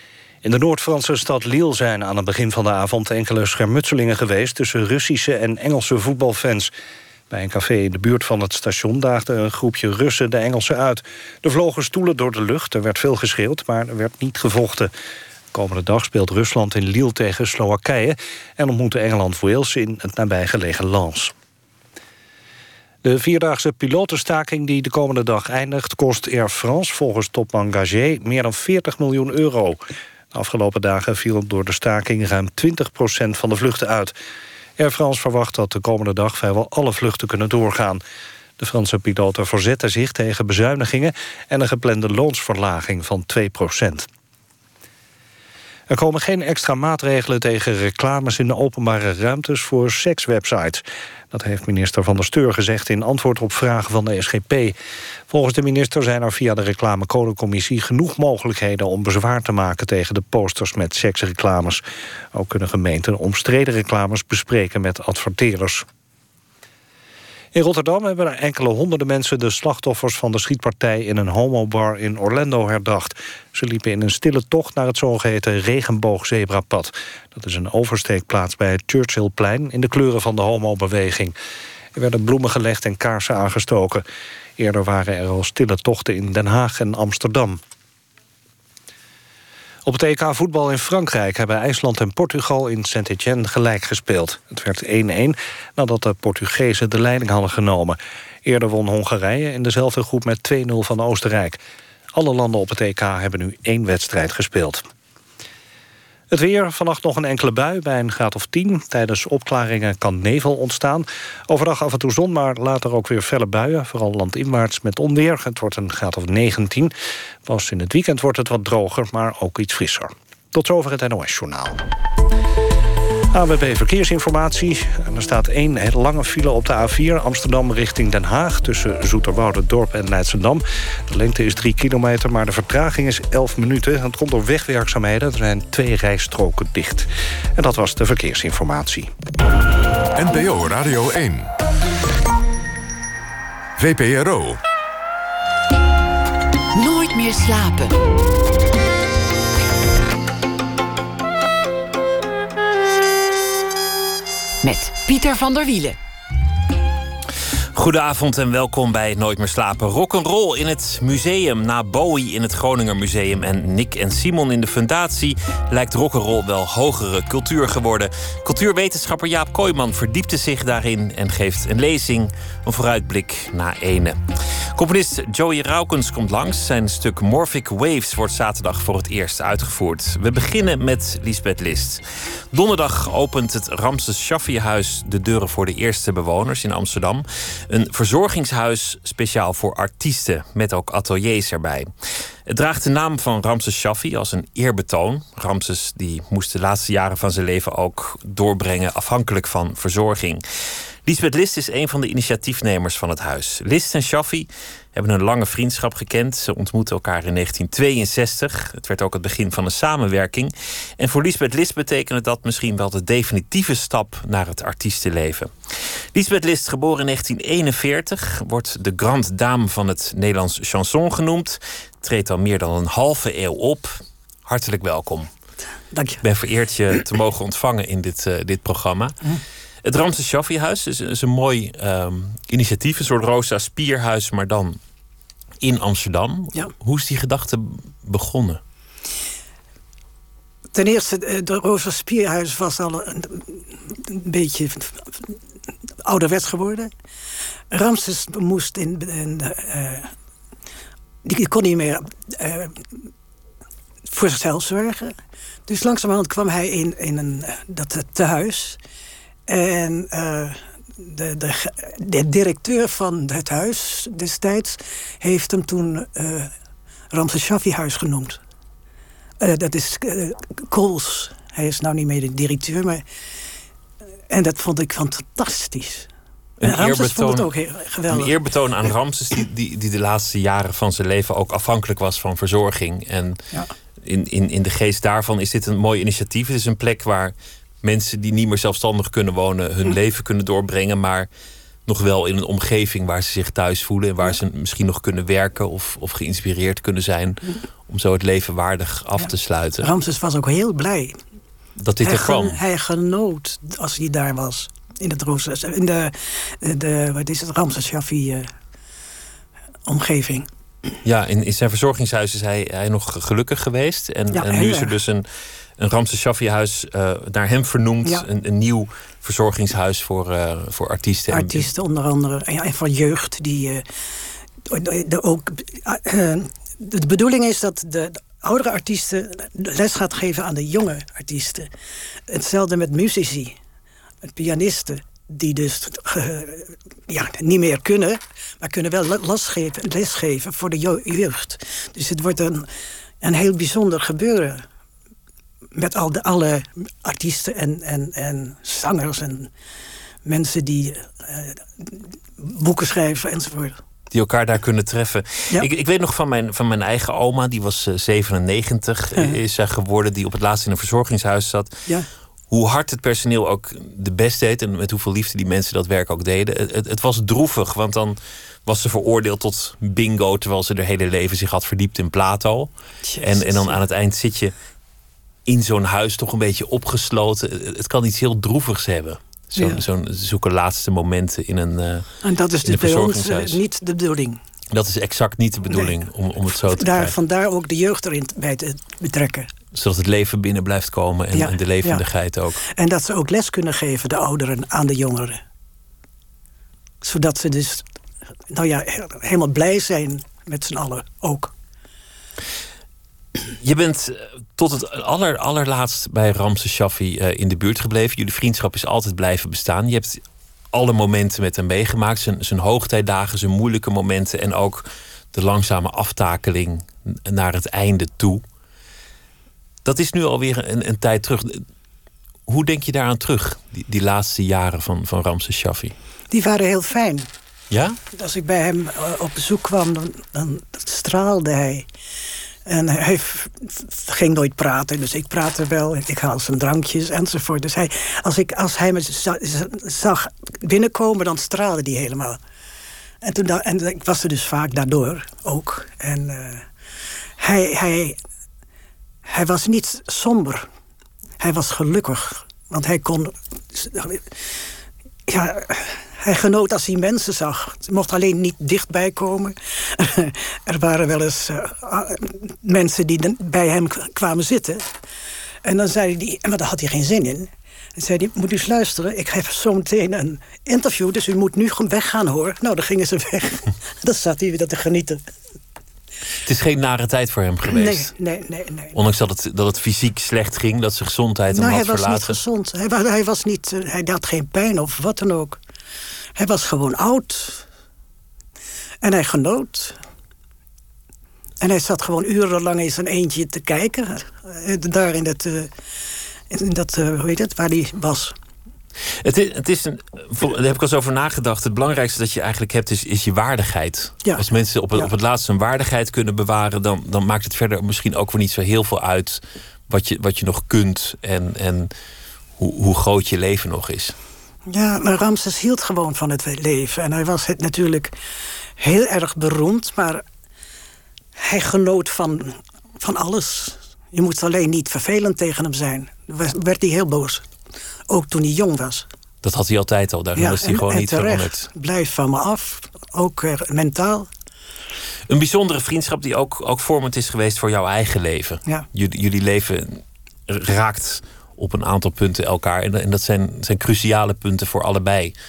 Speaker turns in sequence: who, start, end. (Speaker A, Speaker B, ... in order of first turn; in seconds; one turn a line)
Speaker A: 0.4-6.7
Speaker A: 7.3-14.9
Speaker A: 15.5-21.3
Speaker A: 23.0-29.8
Speaker A: 30.3-34.1
Speaker A: 34.8-38.0
Speaker A: 38.6-44.1
Speaker A: 45.9-54.7
Speaker A: 55.3-61.8
Speaker A: 62.3-65.9
Speaker A: 67.5-81.3
Speaker A: 81.9-84.0
Speaker A: 84.6-87.6
Speaker A: 89.8-101.6
Speaker A: 102.1-104.8
Speaker A: 106.3-116.9
Speaker A: 117.4-121.8
Speaker A: 123.3-139.1
Speaker B: 140.2-141.5
Speaker B: 143.8-144.6
Speaker C: 146.7-148.0
Speaker C: 154.6-156.0
Speaker D: 157.7-174.2
Speaker D: 174.7-191.9
Speaker D: 192.5-200.4
Speaker D: 201.0-225.3
Speaker E: 225.9-226.2
Speaker D: 226.2-229.2
Speaker D: 229.8-234.8
Speaker D: 235.6-238.6
Speaker E: 240.7-245.3
Speaker E: 246.0-246.9
Speaker E: 247.7-250.1
Speaker E: 251.2-253.0
Speaker E: 254.1-255.2
Speaker E: 255.7-258.8
Speaker E: 259.5-266.5
Speaker E: 267.1-268.4
Speaker E: 269.4-273.0
Speaker E: 274.3-276.1
Speaker D: 276.6-277.5
Speaker E: 276.6-278.3
Speaker D: 278.1-283.4
Speaker D: 284.0-291.3
Speaker D: 291.9-299.9
Speaker E: 299.2-301.2
Speaker D: 301.8-302.6
Speaker E: 302.0-308.5
Speaker E: 309.9-310.5
Speaker D: 311.0-315.2
Speaker E: 314.3-314.9
Speaker D: 315.8-321.6
Speaker E: 321.3-323.8
Speaker E: 324.6-331.7
Speaker E: 332.3-333.6
Speaker E: 334.3-342.7
Speaker E: 343.2-344.6
Speaker E: 345.7-349.5
Speaker E: 350.2-353.8
Speaker D: 354.1-361.7
Speaker D: 362.5-374.5
Speaker E: 373.1-373.8
Speaker D: 375.4-382.1
Speaker E: 379.6-379.8
Speaker E: 382.2-384.4
Speaker D: 382.6-383.6
Speaker D: 384.7-387.1
Speaker E: 385.7-385.9
Speaker E: 386.5-389.5
Speaker D: 389.7-392.6
Speaker E: 391.3-392.0
Speaker E: 392.6-395.4
Speaker E: 397.0-397.8
Speaker E: 398.5-401.5
Speaker D: 403.6-418.4
Speaker D: 419.8-421.6
Speaker D: 422.5-425.9
Speaker E: 426.3-427.3
Speaker D: 427.7-428.0
Speaker E: 428.1-431.9
Speaker E: 432.6-442.4
Speaker E: 443.2-446.7
Speaker E: 447.4-448.2
Speaker E: 449.2-450.7
Speaker E: 451.4-454.3
Speaker E: 455.3-464.9
Speaker E: 465.6-475.2
Speaker D: 476.4-478.1
Speaker E: 477.7-478.9
Speaker D: 478.9-482.4
Speaker E: 481.5-485.6
Speaker E: 486.4-487.6
Speaker E: 489.0-490.0
Speaker E: 491.6-495.7
Speaker E: 496.5-498.3
Speaker D: 499.2-511.9
Speaker D: 512.6-514.1
Speaker E: 514.7-518.1
Speaker E: 518.8-520.2
Speaker E: 521.4-527.5
Speaker E: 528.1-529.1
Speaker D: 529.4-531.7
Speaker E: 530.4-534.3
Speaker D: 535.3-545.3